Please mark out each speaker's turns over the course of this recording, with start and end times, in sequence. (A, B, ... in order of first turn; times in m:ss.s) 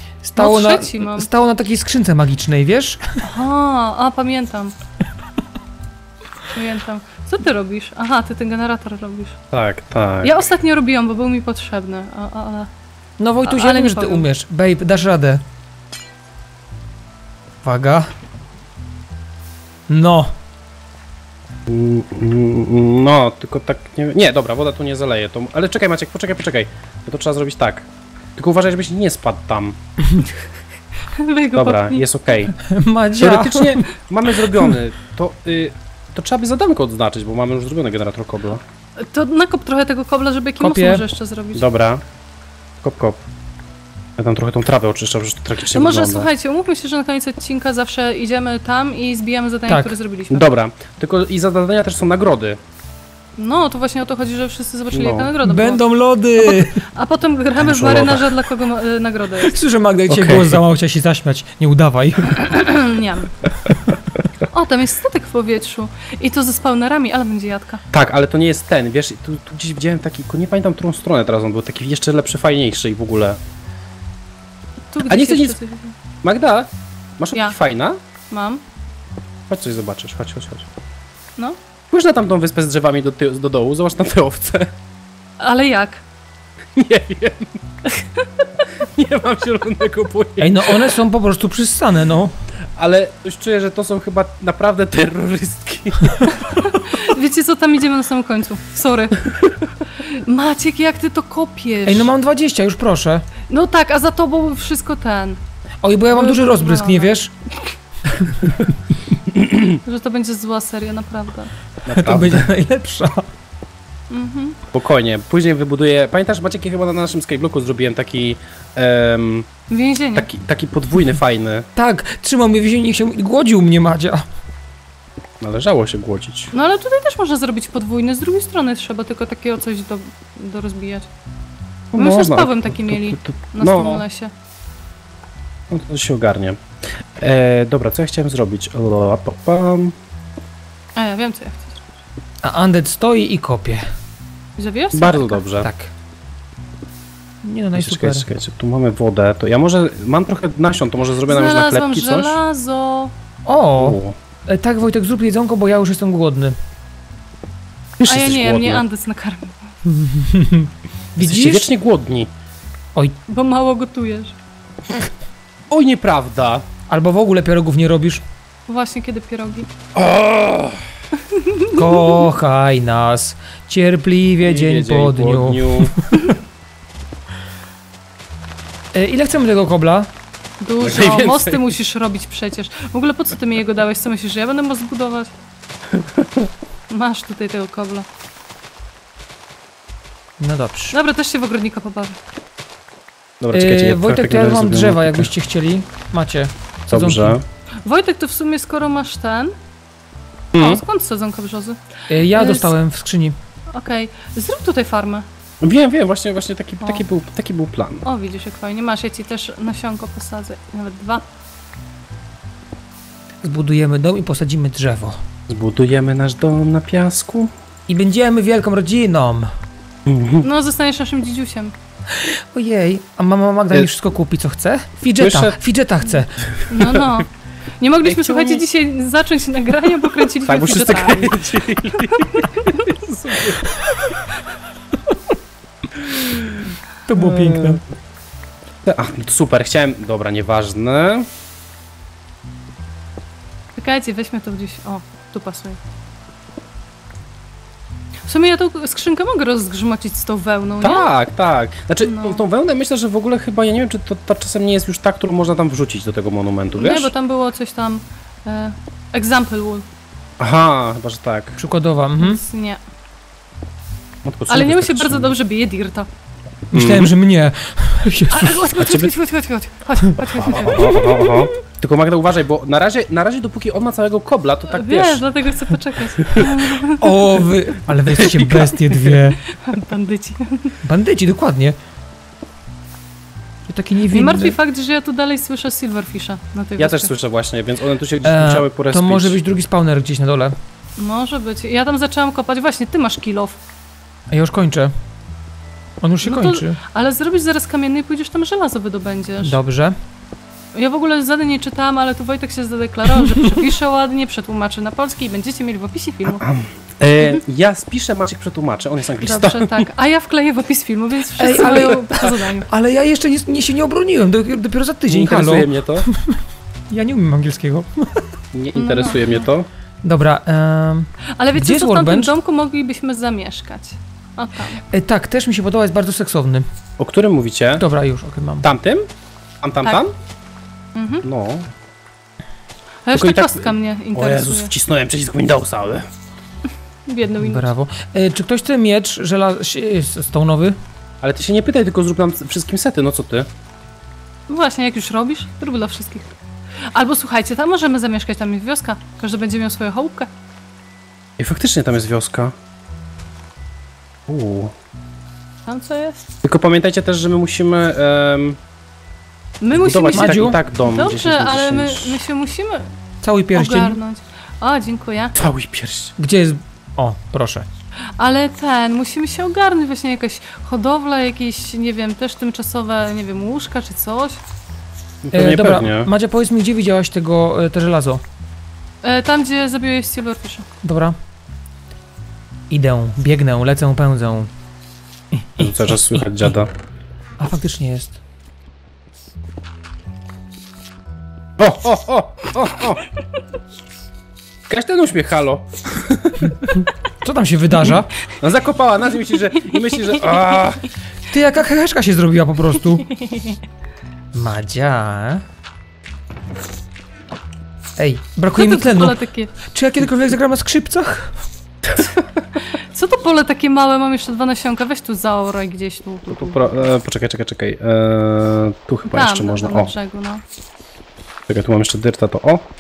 0:00.2-0:03.2 A
0:00.4-0:01.3 B
0:03.2-0:04.7 B
0:06.5-0:09.4 B
0:09.5-0:10.5 C
0:10.2-0:12.7 B
0:13.2-0:15.4 A
0:13.4-0:14.3 B
0:17.6-0:18.1 A
0:19.9-0:20.3 A
0:21.7-0:29.8 C
0:31.2-0:32.1 B
0:31.6-0:32.6 C
0:32.6-0:33.9 A
0:33.2-0:38.6 C
0:39.0-0:41.6 B
0:40.6-0:41.0 A
0:41.6-0:42.0 C
0:42.8-0:43.2 C
0:44.2-0:46.3 C
0:45.7-0:50.5 B
0:49.7-0:50.0 A
0:50.3-0:52.6 C
0:53.4-0:55.8 B
0:54.9-0:55.3 C
0:55.4-0:56.8 A
0:56.4-0:59.5 B
0:57.6-0:58.4 C
0:59.4-1:02.6 A
1:00.1-1:00.6 C
1:02.3-1:03.3 B
1:04.5-1:07.8 B
1:07.9-1:13.4 C
1:14.9-1:16.0 B
1:15.1-1:15.6 C
1:16.2-1:18.0 C
1:18.3-1:18.6 B
1:19.5-1:20.7 C
1:21.9-1:24.7 C
1:25.4-1:26.0 B
1:26.8-1:27.6 C
1:27.8-1:28.6 B
1:28.8-1:30.9 C
1:30.4-1:32.3 A
1:32.8-1:36.6 C
1:36.3-1:39.3 B
1:40.0-1:42.1 B
1:41.9-1:43.3 A
1:43.5-1:45.4 B
1:45.8-1:47.3 A
1:46.1-1:47.1 B
1:49.3-1:49.8 C
1:49.8-1:51.5 B
1:51.9-1:52.5 C
1:51.9-1:53.3 A
1:54.1-1:54.6 B
1:54.7-1:59.5 C
1:59.7-2:00.3 B
2:00.2-2:01.7 C
2:01.8-2:04.2 A
2:05.4-2:06.5 C
2:06.5-2:11.1 B
2:11.9-2:14.0 C
2:12.0-2:14.3 B
2:15.7-2:16.6 C
2:17.2-2:20.0 C
2:21.0-2:21.8 B
2:22.4-2:23.8 A
2:24.6-2:25.4 B
2:24.9-2:25.7 C
2:25.6-2:25.9 A
2:27.4-2:28.3 A
2:27.8-2:32.4 C
2:31.3-2:33.1 B
2:33.5-2:36.6 A
2:33.8-2:34.2 C
2:38.0-2:38.8 C
2:38.0-2:39.6 B
2:40.0-2:41.7 A
2:41.2-2:42.3 C
2:43.3-2:44.4 B
2:45.7-2:46.6 C
2:46.9-2:48.2 A
2:48.7-2:49.7 B
2:50.0-2:50.8 C
2:51.2-2:52.2 B
2:51.7-2:56.1 A
2:54.4-2:55.9 C
2:58.9-3:00.1 A
3:00.6-3:05.3 B
3:00.8-3:01.7 C
3:06.0-3:06.5 C
3:06.9-3:08.1 B
3:10.4-3:11.0 A
3:10.9-3:12.2 B
3:13.4-3:15.3 C
3:13.5-3:17.4 A
3:16.9-3:17.4 C
3:17.8-3:19.5 B
3:20.5-3:20.8 C
3:20.6-3:22.7 B
3:22.1-3:23.4 A
3:23.7-3:25.3 B
3:25.6-3:28.0 C
3:28.0-3:31.2 B
3:33.4-3:35.2 A
3:35.5-3:37.5 C
3:37.9-3:39.5 A
3:40.1-3:40.5 C
3:40.4-3:41.7 B
3:42.1-3:46.4 A
3:45.2-3:45.6 C
3:46.7-3:47.3 B
3:47.8-3:52.9 B
3:48.0-3:48.6 C
3:50.4-3:53.7 C
3:56.0-3:56.5 C
3:57.1-3:57.8 A
3:57.1-3:57.8 C
3:58.8-4:01.3 C
4:03.8-4:05.8 B
4:08.3-4:11.1 B
4:10.8-4:17.1 C
4:12.0-4:12.4 B
4:16.7-4:19.9 B
4:20.4-4:21.6 C
4:21.6-4:22.4 A
4:22.2-4:22.8 B
4:24.2-4:25.3 C
4:24.5-4:26.1 B
4:26.7-4:29.0 A
4:26.7-4:27.1 C
4:28.3-4:31.4 B
4:28.8-4:29.1 C
4:30.4-4:35.3 C
4:30.7-4:31.4 A
4:34.7-4:37.1 B
4:36.2-4:36.6 C
4:36.9-4:39.4 A
4:37.9-4:39.2 C
4:39.4-4:40.8 B
4:40.8-4:41.8 A
4:43.7-4:44.6 A
4:44.1-4:47.1 B
4:46.8-4:49.4 C
4:48.2-4:50.6 A
4:51.0-4:53.6 B
4:54.3-4:54.9 A
4:56.0-4:56.8 A
4:56.2-4:59.6 B
4:59.4-5:00.0 A
5:00.7-5:06.5 B
5:06.4-5:09.9 C
5:09.2-5:12.7 B
5:11.4-5:16.4 A
5:15.1-5:16.1 C
5:16.9-5:18.3 A
5:18.5-5:19.7 C
5:18.8-5:19.4 B
5:20.0-5:22.3 A
5:21.3-5:24.8 B
5:24.9-5:26.7 A
5:27.0-5:27.8 C
5:27.8-5:28.7 A
5:28.6-5:29.1 C
5:29.6-5:30.1 C
5:31.0-5:31.3 B
5:31.2-5:31.7 C
5:33.1-5:34.7 B
5:33.1-5:36.1 C
5:37.1-5:37.7 B
5:37.4-5:40.8 A
5:41.2-5:43.5 C
5:44.5-5:46.4 B
5:46.9-5:50.3 B
5:51.4-5:52.6 C
5:54.3-5:54.7 C
5:55.7-5:56.2 B
5:56.4-5:58.6 C
5:59.6-6:02.9 B
5:59.7-6:02.2 C
6:00.1-6:00.6 A
6:03.2-6:04.0 A
6:03.5-6:05.4 B
6:05.4-6:06.1 C
6:06.2-6:07.7 A
6:08.2-6:14.4 B
6:15.2-6:16.1 C
6:15.3-6:18.2 A
6:19.0-6:20.7 B
6:20.8-6:21.2 A
6:22.7-6:24.5 A
6:25.4-6:25.8 A
6:25.6-6:26.7 C
6:27.4-6:28.2 A
6:31.6-6:33.0 C
6:34.7-6:36.8 C
6:37.2-6:38.1 A
6:38.4-6:40.8 C
6:39.5-6:40.4 B
6:41.3-6:43.1 A
6:43.0-6:43.6 B
6:44.3-6:45.4 A
6:48.0-6:51.3 A
6:48.6-6:49.5 B
6:51.9-6:52.2 C
6:52.6-6:56.7 B
6:56.3-6:59.9 C
6:59.1-7:00.4 B
7:01.5-7:02.7 C